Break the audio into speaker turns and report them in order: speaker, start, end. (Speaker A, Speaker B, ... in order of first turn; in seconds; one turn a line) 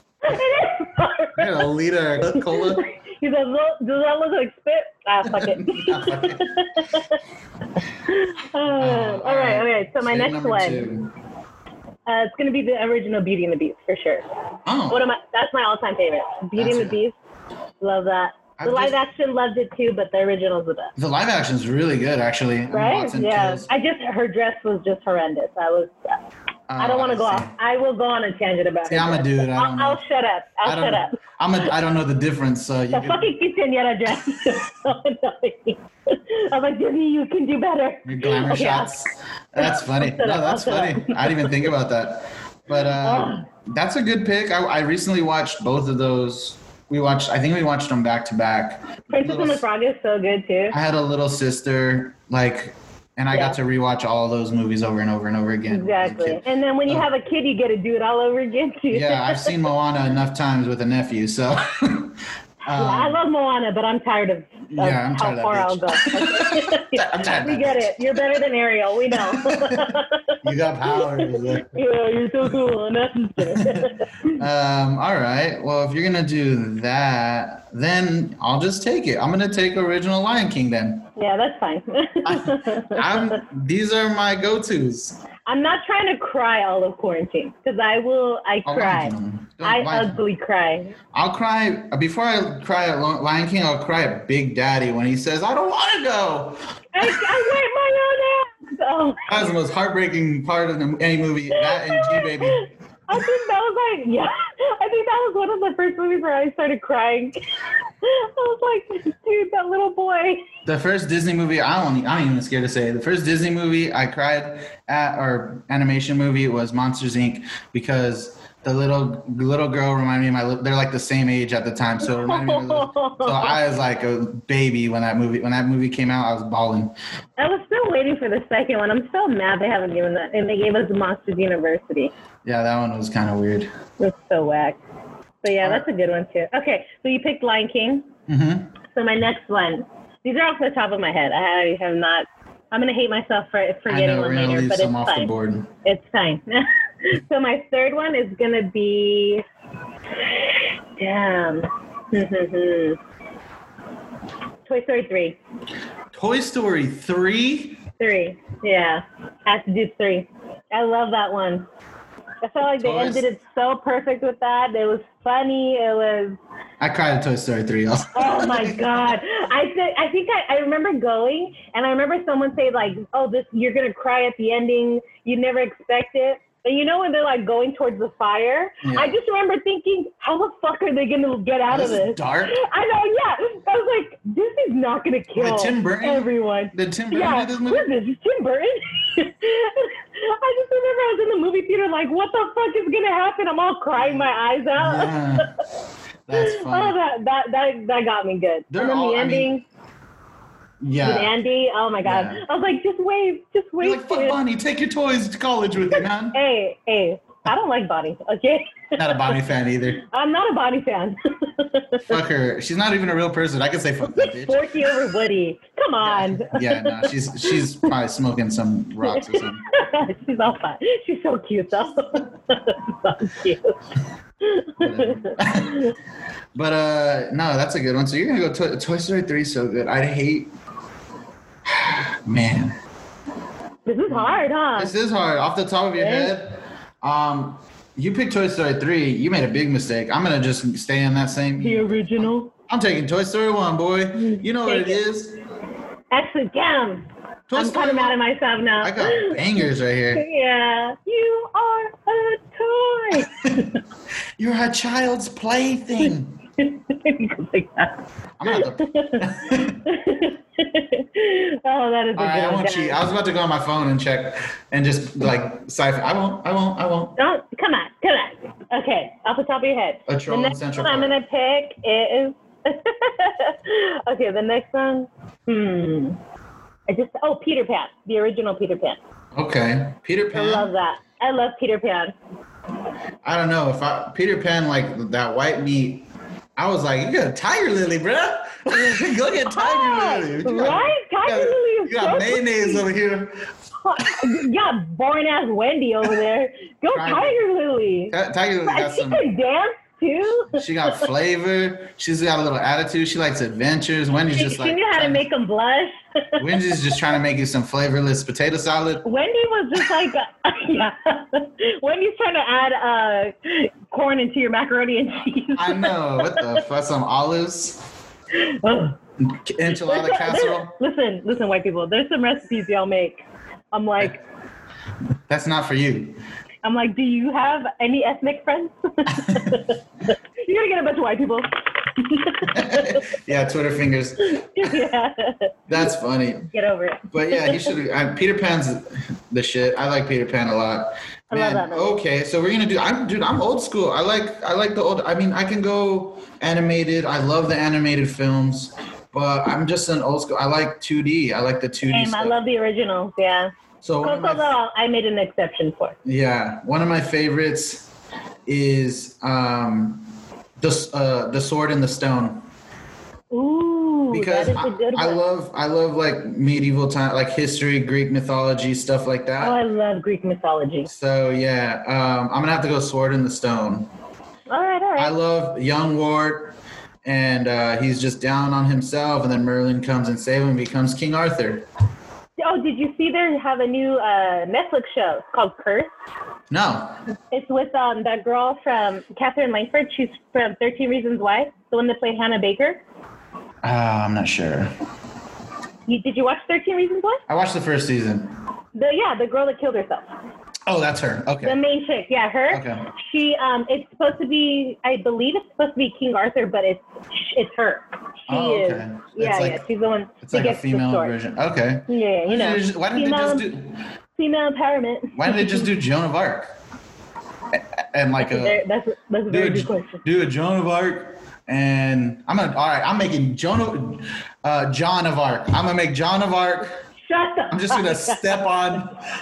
Speaker A: 0.2-1.5
Speaker B: 1.4-2.8
Speaker A: 2.3-7.2
Speaker B: 5.2-6.5
Speaker A: 8.1-10.9
Speaker B: 8.7-11.1
Speaker A: 12.1-14.2
Speaker B: 14.7-15.0
Speaker A: 14.9-17.1
Speaker B: 16.6-17.0
Speaker A: 17.8-20.9
Speaker B: 18.6-19.0
Speaker B: 20.9-23.7
Speaker A: 22.7-26.1
Speaker B: 26.7-27.5
Speaker A: 26.8-31.2
Speaker B: 28.9-30.0
Speaker B: 30.6-33.3
Speaker A: 32.9-39.0
Speaker B: 38.0-49.6
Speaker A: 39.6-41.7
Speaker A: 43.0-43.4
Speaker A: 49.1-50.8
Speaker B: 50.7-57.0
Speaker A: 53.3-53.6
Speaker A: 55.7-59.5
Speaker B: 58.9-63.2
Speaker A: 62.7-74.4
Speaker B: 64.7-68.2
Speaker B: 69.1-71.8
Speaker B: 73.4-81.1
Speaker A: 81.2-83.4
Speaker B: 82.2-85.2
Speaker A: 85.5-90.9
Speaker B: 88.7-90.2
Speaker B: 91.1-97.3
Speaker A: 96.9-99.5
Speaker B: 99.3-103.2
Speaker A: 101.5-107.4
Speaker A: 108.0-110.5
Speaker B: 110.7-126.9
Speaker A: 122.1-123.6
Speaker A: 127.4-132.1
Speaker B: 132.4-133.7
Speaker A: 134.0-134.8
Speaker A: 135.4-138.1
Speaker B: 135.6-135.8
Speaker B: 138.3-138.7
Speaker A: 138.9-145.3
Speaker B: 143.9-145.7
Speaker A: 145.8-149.4
Speaker A: 151.0-153.0
Speaker A: 154.7-155.4
Speaker B: 156.1-157.8
Speaker A: 158.0-161.7
Speaker A: 162.4-166.4
Speaker B: 162.8-163.2
Speaker B: 166.8-169.2
Speaker A: 168.1-195.5
Speaker B: 178.8-179.2
Speaker B: 181.7-182.6
Speaker B: 185.3-187.9
Speaker B: 193.9-195.5
Speaker B: 196.3-197.0
Speaker A: 196.3-199.6
Speaker B: 198.7-199.5
Speaker B: 200.8-201.3
Speaker A: 201.0-204.4
Speaker B: 202.0-202.4
Speaker B: 203.8-206.4
Speaker A: 206.3-209.3
Speaker B: 208.9-210.0
Speaker A: 210.0-212.1
Speaker B: 212.1-214.9
Speaker A: 214.0-217.9
Speaker B: 216.0-219.6
Speaker A: 219.0-223.8
Speaker A: 224.4-225.9
Speaker B: 224.8-225.9
Speaker B: 226.5-230.5
Speaker B: 231.7-232.8
Speaker A: 233.8-234.9
Speaker B: 234.1-245.4
Speaker A: 236.0-236.3
Speaker A: 241.6-242.5
Speaker A: 244.2-245.0
Speaker A: 246.1-249.6
Speaker B: 247.5-248.2
Speaker B: 248.8-250.2
Speaker A: 250.1-253.8
Speaker B: 253.3-253.7
Speaker B: 254.4-256.4
Speaker A: 256.0-263.0
Speaker B: 258.4-259.9
Speaker B: 262.1-267.1
Speaker A: 267.2-276.2
Speaker B: 270.1-271.1
Speaker A: 276.9-279.0
Speaker B: 279.4-280.7
Speaker A: 280.3-282.1
Speaker B: 283.2-293.4
Speaker A: 289.5-292.9
Speaker A: 293.8-301.1
Speaker B: 296.9-297.4
Speaker B: 298.1-299.2
Speaker B: 300.5-305.2
Speaker A: 304.3-306.6
Speaker B: 306.4-309.0
Speaker A: 309.0-316.6
Speaker B: 315.5-317.9
Speaker A: 318.3-318.9
Speaker B: 319.2-320.7
Speaker A: 319.7-324.2
Speaker B: 325.3-326.2
Speaker A: 326.6-333.1
Speaker B: 329.2-329.6
Speaker B: 332.5-334.9
Speaker A: 334.2-335.9
Speaker B: 335.7-336.5
Speaker A: 336.5-337.7
Speaker B: 337.1-352.4
Speaker A: 341.3-342.0
Speaker A: 351.9-353.5
Speaker B: 353.8-354.5
Speaker A: 354.0-355.9
Speaker B: 356.0-357.9
Speaker B: 358.4-360.0
Speaker B: 360.6-362.4
Speaker A: 363.3-365.2
Speaker B: 364.1-369.6
Speaker A: 369.4-370.9
Speaker B: 370.9-373.9
Speaker A: 374.5-375.1
Speaker B: 375.0-381.7
Speaker A: 382.4-385.9
Speaker B: 386.5-387.0
Speaker A: 387.3-392.8
Speaker B: 393.6-394.7
Speaker A: 395.9-397.2
Speaker B: 397.3-398.4
Speaker A: 398.8-400.1
Speaker B: 400.7-401.6
Speaker A: 401.4-411.1
Speaker B: 402.5-402.9
Speaker B: 408.3-409.6
Speaker B: 410.2-413.8
Speaker A: 411.9-413.4
Speaker A: 414.2-415.7
Speaker B: 415.1-416.5
Speaker B: 417.5-418.6
Speaker A: 418.2-420.0
Speaker B: 419.3-426.8
Speaker A: 427.1-428.5
Speaker B: 427.5-428.9